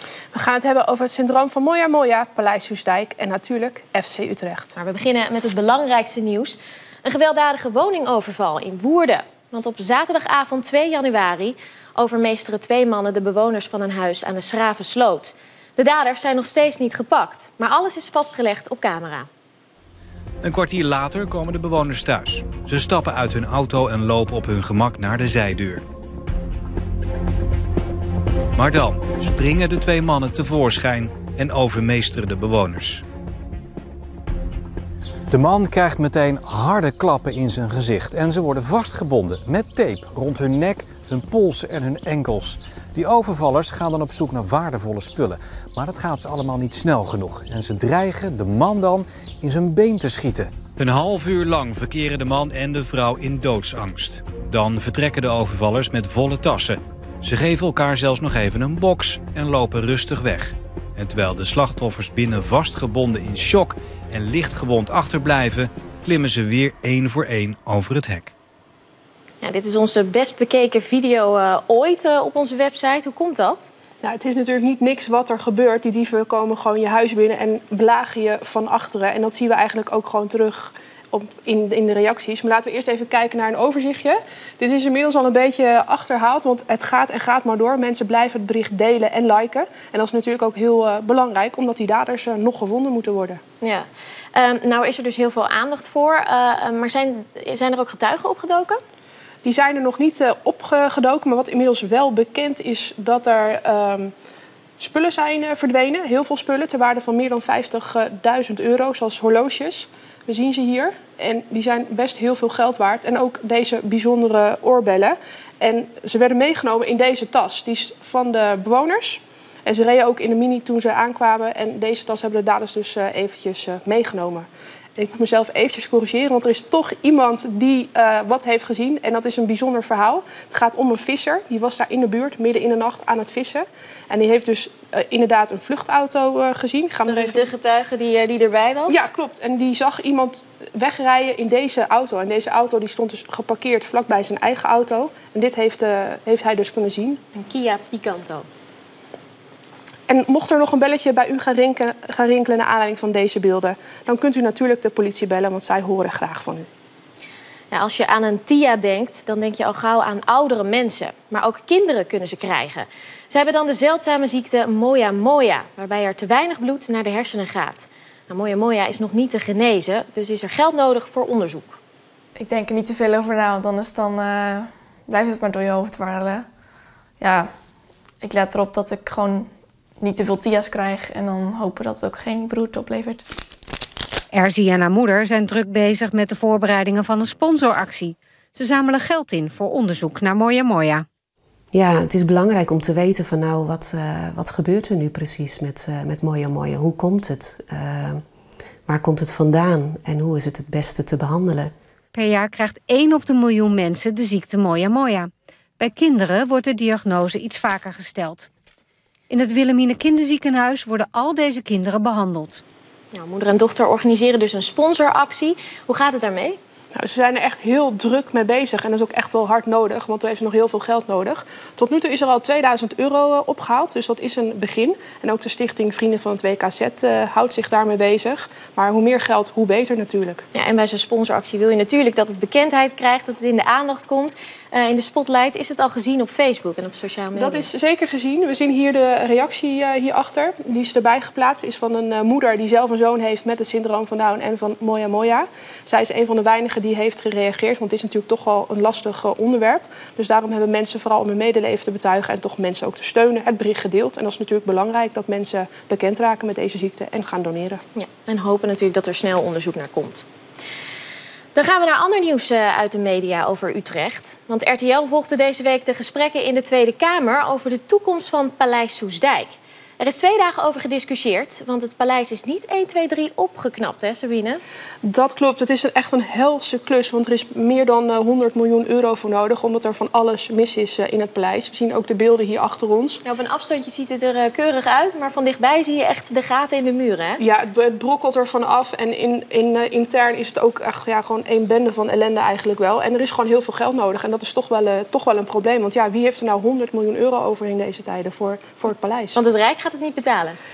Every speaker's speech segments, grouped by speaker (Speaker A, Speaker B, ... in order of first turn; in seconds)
Speaker A: 0.3-4.7, 74.0-93.4, 99.4-104.1, 104.8-137.4, 138.9-147.2, 150.1-156.7, 216.9-230.4, 237.3-257.8, 275.0-283.2, 287.4-299.4
Speaker B: 4.8-19.3, 69.4-73.7, 93.6-98.8, 137.1-139.1, 147.3-148.5, 157.7-171.8, 213.1-216.6, 230.5-237.7, 258.0-260.2, 261.5-274.6, 283.2-287.4, 299.3-300.6
Speaker C: 20.4-25.8, 28.6-33.0, 35.3-68.3
Speaker D: 172.3-176.5, 177.2-177.5, 178.2-183.2
Speaker E: 184.3-191.1, 202.1-208.5, 209.3-212.6
Speaker F: 191.7-198.2, 198.9-201.7